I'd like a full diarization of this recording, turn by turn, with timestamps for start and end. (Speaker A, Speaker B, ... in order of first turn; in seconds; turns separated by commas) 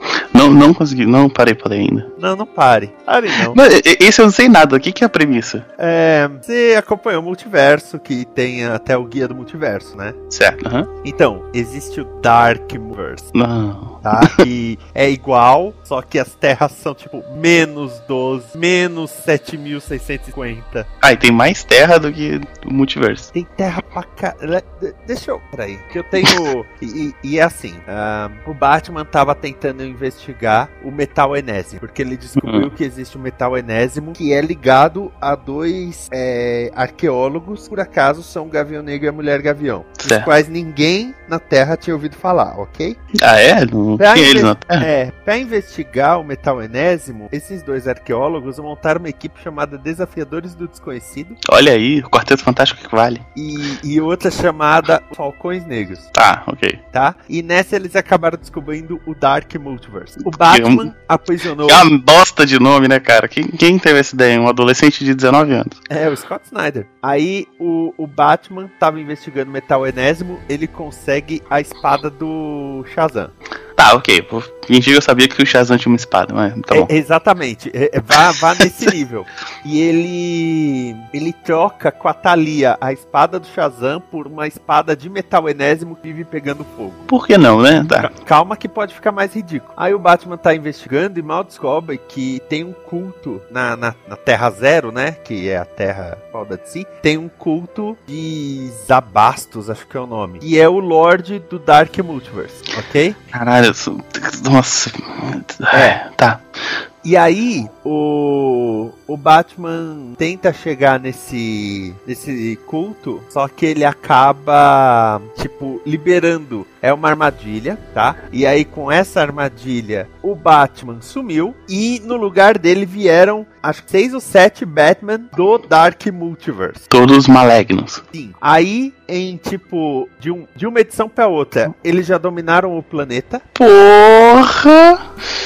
Speaker A: 0.3-2.1, Speaker B: 2.2-3.6, Speaker A: 3.5-5.7, Speaker B: 5.8-10.2, Speaker A: 10.3-10.9, Speaker B: 11.0-13.3, Speaker A: 13.3-14.4, Speaker B: 14.0-20.9, Speaker A: 21.0-23.3, Speaker B: 23.3-43.0, Speaker A: 32.4-32.7, Speaker A: 40.0-40.3, Speaker A: 43.2-44.9, Speaker B: 44.0-51.4, Speaker A: 51.5-53.2, Speaker B: 53.4-56.1, Speaker A: 56.1-56.8, Speaker B: 56.9-61.9, Speaker A: 60.2-60.9, Speaker A: 61.6-65.8, Speaker B: 65.9-73.3, Speaker A: 73.8-76.9, Speaker B: 76.7-87.0, Speaker A: 87.1-88.1, Speaker B: 88.0-103.2, Speaker A: 103.3-106.5, Speaker B: 105.7-106.0, Speaker B: 107.0-126.9, Speaker A: 126.9-128.0, Speaker B: 128.1-133.4, Speaker A: 133.6-135.0